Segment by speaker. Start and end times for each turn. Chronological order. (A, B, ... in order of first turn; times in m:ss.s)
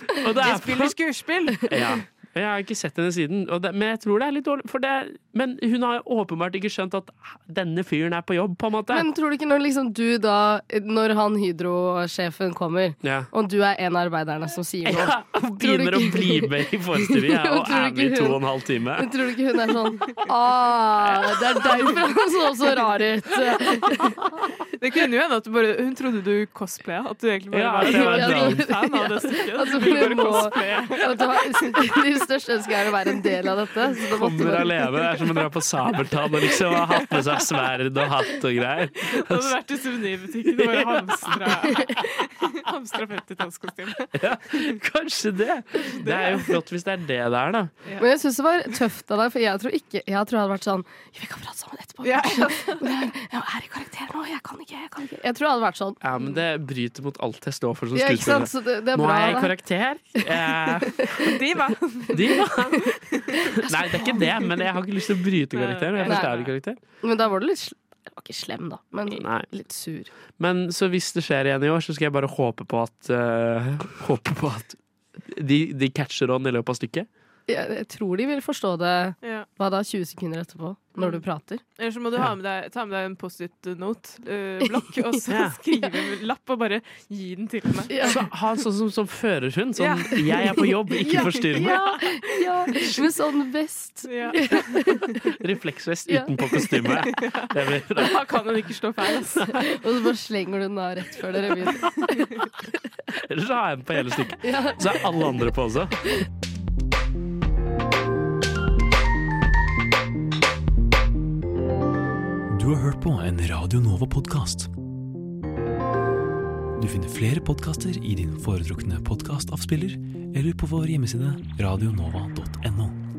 0:00.2-0:01.0 A
0:00.4-0:01.6 B
0:01.7-0:09.1 A
0:08.9-0:18.4 C
0:13.0-0:13.3 A
0:14.9-0:19.1 A
0:19.0-0:24.2 C
0:21.6-0:22.0 B
0:24.8-0:31.8 B
0:27.5-0:28.7 A
0:27.9-0:35.0 C
0:34.2-0:39.6 A
0:39.1-0:44.7 B
0:40.5-0:41.6 A
0:41.7-0:42.0 C
0:44.2-0:47.7 A
0:45.8-0:46.6 B
0:48.0-0:56.0 C
0:52.0-0:52.8 B
0:56.0-1:01.0 A
0:57.9-0:59.6 C
1:00.8-1:01.3 C
1:01.3-1:02.4 B
1:02.1-1:02.9 A
1:03.0-1:04.7 B
1:03.6-1:06.8 A
1:05.5-1:06.5 B
1:07.0-1:10.1 C
1:09.1-1:09.5 A
1:10.3-1:14.8 A
1:15.3-1:17.1 A
1:17.5-1:21.6 C
1:19.2-1:19.5 B
1:21.8-1:28.2 B
1:25.3-1:25.6 A
1:27.9-1:28.2 C
1:28.0-1:32.1 A
1:29.7-1:33.0 B
1:31.1-1:35.3 C
1:34.0-1:35.2 B
1:35.4-1:38.7 A
1:36.1-1:36.3 C
1:37.0-1:39.6 B
1:39.5-1:42.4 C
1:43.3-1:46.0 A
1:44.4-1:45.5 C
1:52.5-1:54.7 D
1:56.8-2:03.0 D